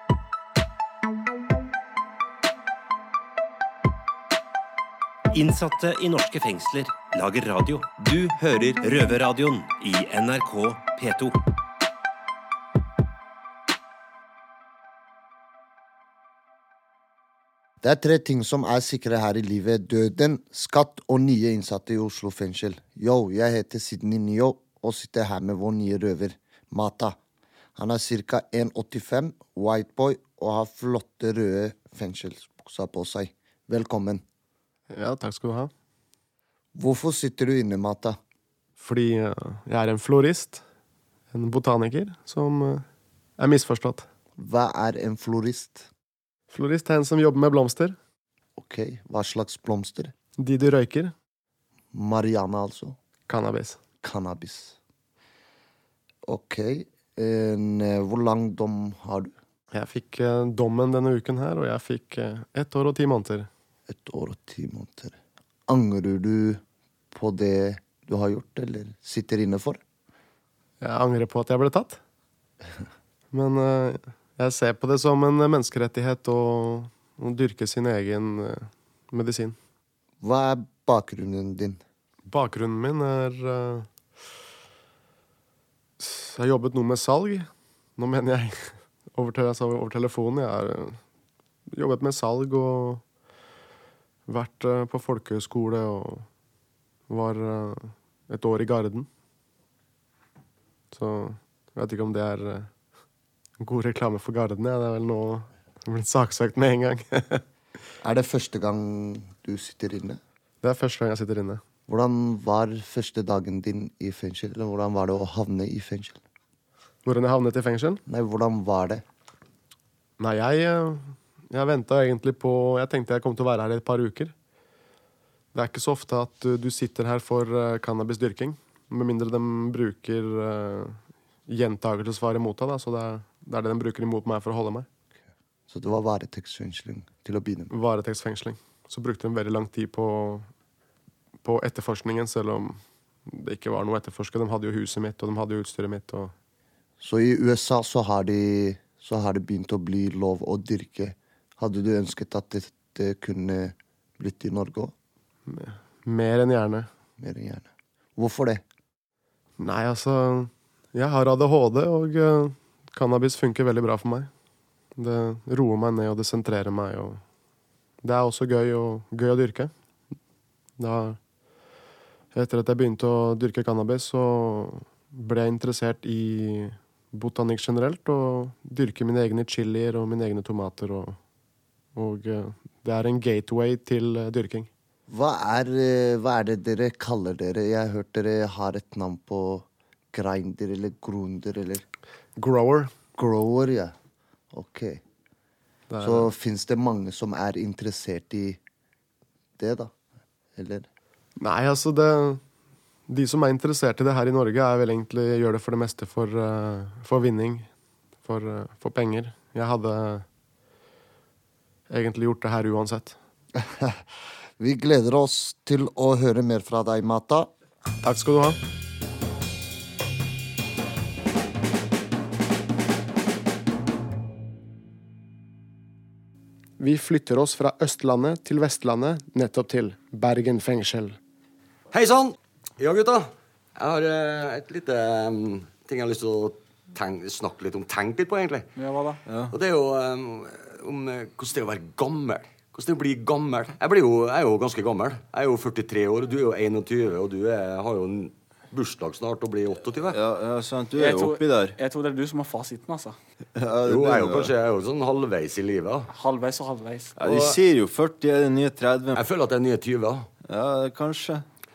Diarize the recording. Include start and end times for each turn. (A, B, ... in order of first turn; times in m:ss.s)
0:05.3-0:11.4 A
0:17.8-0:27.2 B
0:27.8-0:34.2 B
0:34.9-0:35.7 C
0:36.8-0:38.2 B
0:38.8-0:40.6 C
0:41.3-0:42.9 C
0:43.4-0:44.1 C
0:44.4-0:45.9 B
0:46.5-0:48.0 C
0:48.6-0:50.1 B
0:50.4-0:51.1 C
0:51.9-0:53.0 B
0:53.3-0:53.8 C
0:54.0-0:54.8 B
0:56.2-0:59.3 B
0:59.7-1:03.5 C
1:03.9-1:09.8 B
1:10.8-1:12.0 C
1:13.3-1:19.6 C
1:20.2-1:21.8 B
1:22.3-1:23.9 C
1:26.0-1:31.0 C
1:31.7-1:33.0 C
1:34.3-1:36.3 C
1:37.1-1:39.1 C
1:40.9-1:42.7 C
1:43.6-1:47.4 C
1:48.0-1:50.2 B
1:50.6-1:51.6 C
1:51.9-1:56.2 B
1:57.0-1:58.0 C
1:58.1-1:59.0 B
2:00.2-2:04.3 C
2:05.5-2:14.9 C
2:15.7-2:17.7 B
2:17.7-2:20.5 C
2:21.4-2:26.3 C
2:27.0-2:34.9 B
2:35.5-2:36.9 C
2:37.2-2:38.6 B
2:39.6-2:44.3 C
2:45.0-2:47.2 C
2:48.0-2:49.7 C
2:50.8-2:51.2 C
2:52.3-3:01.2 C
3:02.0-3:04.7 C
3:05.1-3:11.8 B
3:12.4-3:12.9 C
3:13.2-3:13.9 B
3:14.5-3:15.0 B
3:15.9-3:16.3 C
3:16.0-3:18.6 B
3:19.6-3:19.9 B
3:20.6-3:20.9 B
3:21.4-3:22.4 C
3:23.1-3:27.7 C
3:28.2-3:30.3 C
3:31.9-3:33.2 C
3:33.6-3:34.0 B
3:34.6-3:37.5 B
3:38.0-3:38.6 C
3:46.8-3:51.2 C
3:51.9-3:58.7 D
3:58.8-3:59.2 E
3:59.3-3:59.5 F
3:59.5-4:10.2 D
4:10.1-4:11.8 F
4:10.9-4:13.2 E
4:13.6-4:14.5 F
4:13.9-4:16.1 D
4:16.1-4:17.2 E
4:17.2-4:19.2 F
4:17.3-4:17.6 D
4:19.2-4:20.3 D
4:20.4-4:21.4 F